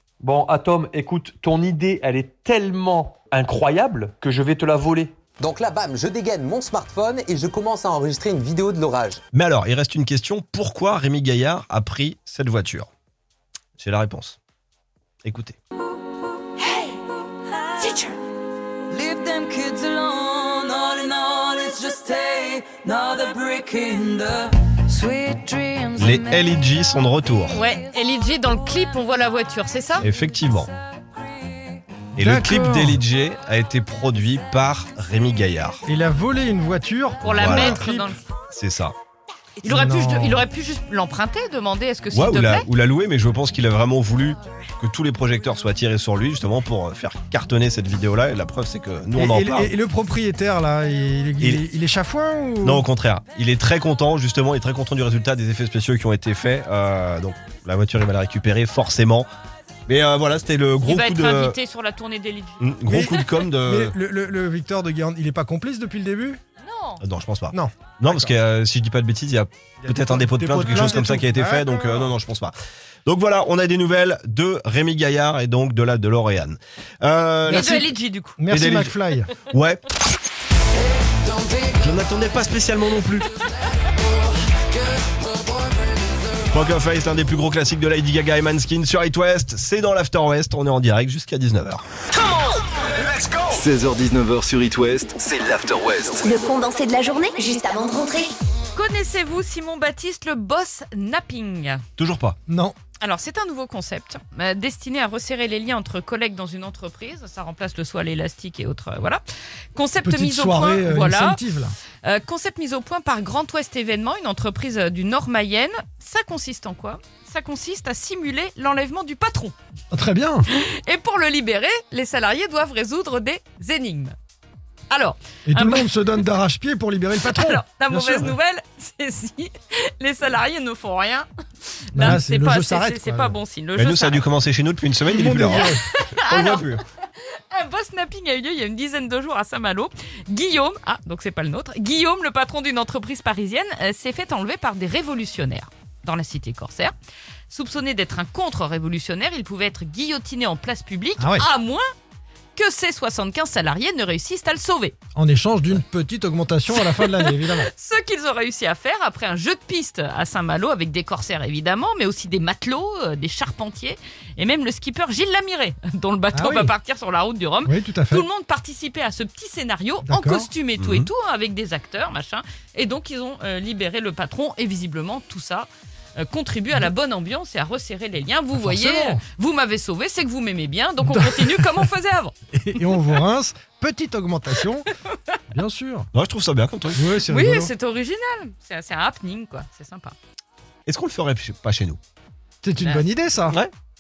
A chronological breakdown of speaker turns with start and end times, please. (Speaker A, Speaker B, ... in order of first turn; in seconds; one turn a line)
Speaker A: 0.2-5.1
Speaker B: 5.4-9.2
Speaker C: 9.3-12.9
Speaker C: 13.8-14.4
Speaker C: 15.2-15.6
Speaker D: 17.8-18.1
Speaker D: 18.9-26.5
Speaker C: 26.0-27.6
Speaker E: 27.5-30.1
Speaker C: 30.0-30.7
Speaker F: 32.1-33.0
Speaker C: 32.2-35.8
Speaker F: 35.9-38.1
Speaker E: 37.2-38.2
Speaker C: 37.4-37.8
Speaker C: 38.5-39.0
Speaker E: 39.6-42.7
Speaker F: 39.6-40.5
Speaker C: 42.1-49.7
Speaker F: 49.1-52.9
Speaker C: 52.6-59.3
Speaker C: 59.9-61.6
Speaker E: 60.9-63.3
Speaker C: 62.6-64.0
Speaker F: 62.9-66.4
Speaker E: 66.6-67.0
Speaker C: 67.0-72.5
Speaker F: 67.5-68.3
Speaker F: 69.8-72.2
Speaker C: 73.1-77.8
Speaker F: 77.5-79.3
Speaker E: 77.5-78.4
Speaker C: 78.5-78.9
Speaker C: 79.5-79.8
Speaker C: 81.8-83.3
Speaker C: 86.5-91.8
Speaker G: 93.3-96.3
Speaker H: 96.2-98.3
Speaker E: 98.7-101.8
Speaker C: 102.0-102.4
Speaker F: 102.5-102.8
Speaker E: 103.0-109.2
Speaker E: 109.8-111.4
Speaker F: 110.0-111.8
Speaker E: 112.0-119.5
Speaker F: 119.9-120.5
Speaker E: 120.5-124.2
Speaker E: 124.9-125.9
Speaker F: 125.5-128.4
Speaker E: 127.2-131.3
Speaker E: 131.9-134.2
Speaker F: 131.9-133.4
Speaker C: 133.8-135.7
Speaker F: 135.1-135.8
Speaker E: 135.4-136.8
Speaker C: 136.3-136.8
Speaker E: 137.5-146.9
Speaker E: 147.5-151.8
Speaker F: 151.2-151.5
Speaker E: 152.6-154.9
Speaker F: 155.2-157.7
Speaker E: 156.8-182.3
Speaker F: 166.3-166.7
Speaker F: 167.7-168.3
Speaker F: 170.1-170.5
Speaker C: 170.8-171.1
Speaker F: 178.6-179.2
Speaker F: 181.1-181.7
Speaker F: 182.6-184.9
Speaker F: 185.5-186.1
Speaker C: 186.1-187.0
Speaker F: 186.9-187.7
Speaker E: 187.2-190.2
Speaker C: 190.9-192.0
Speaker F: 192.6-193.6